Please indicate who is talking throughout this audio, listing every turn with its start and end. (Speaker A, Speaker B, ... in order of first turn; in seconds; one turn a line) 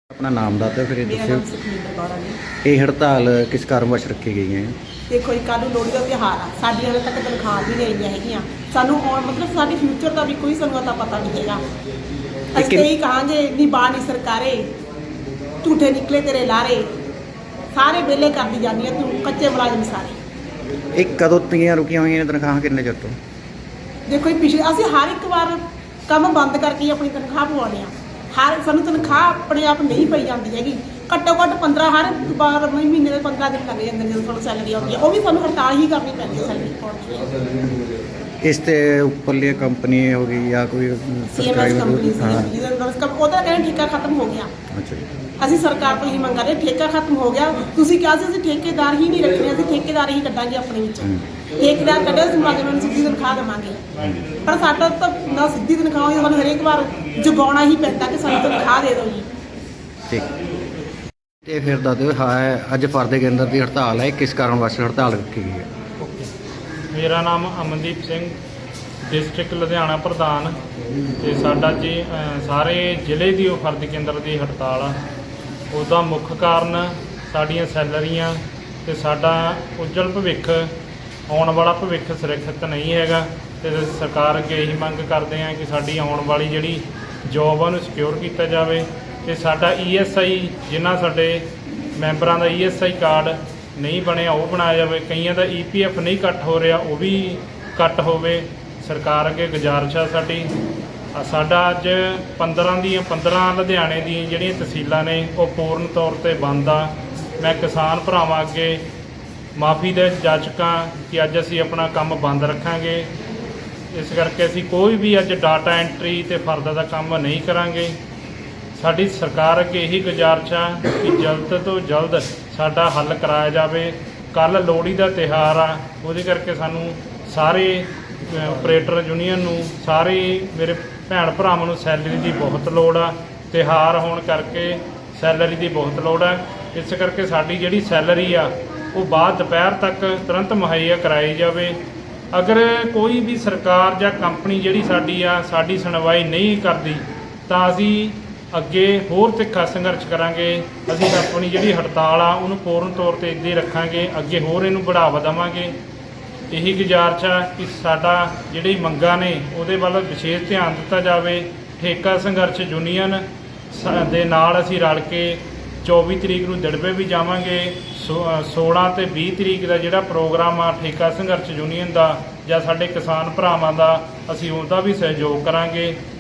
Speaker A: 0.1-1.4
Speaker B: 1.1-2.4
Speaker A: 2.6-4.7
Speaker B: 5.1-11.6
Speaker B: 12.5-14.7
Speaker A: 12.5-12.9
Speaker B: 15.6-16.9
Speaker B: 17.7-20.2
Speaker A: 20.9-23.1
Speaker B: 24.1-37.5
Speaker A: 38.4-42.5
Speaker B: 41.3-44.5
Speaker A: 44.7-45.0
Speaker B: 45.4-53.8
Speaker C: 53.9-55.3
Speaker B: 54.4-59.3
Speaker C: 56.3-57.0
Speaker A: 61.4-65.7
Speaker C: 66.0-66.3
Speaker C: 66.9-68.3
Speaker C: 69.0-70.6
Speaker C: 71.2-75.0
Speaker C: 75.7-80.7
Speaker C: 81.3-100.5
Speaker C: 101.1-108.8
Speaker C: 109.5-113.1
Speaker C: 113.9-118.0
Speaker C: 118.8-141.8
Speaker C: 142.3-155.8
Speaker C: 156.5-176.0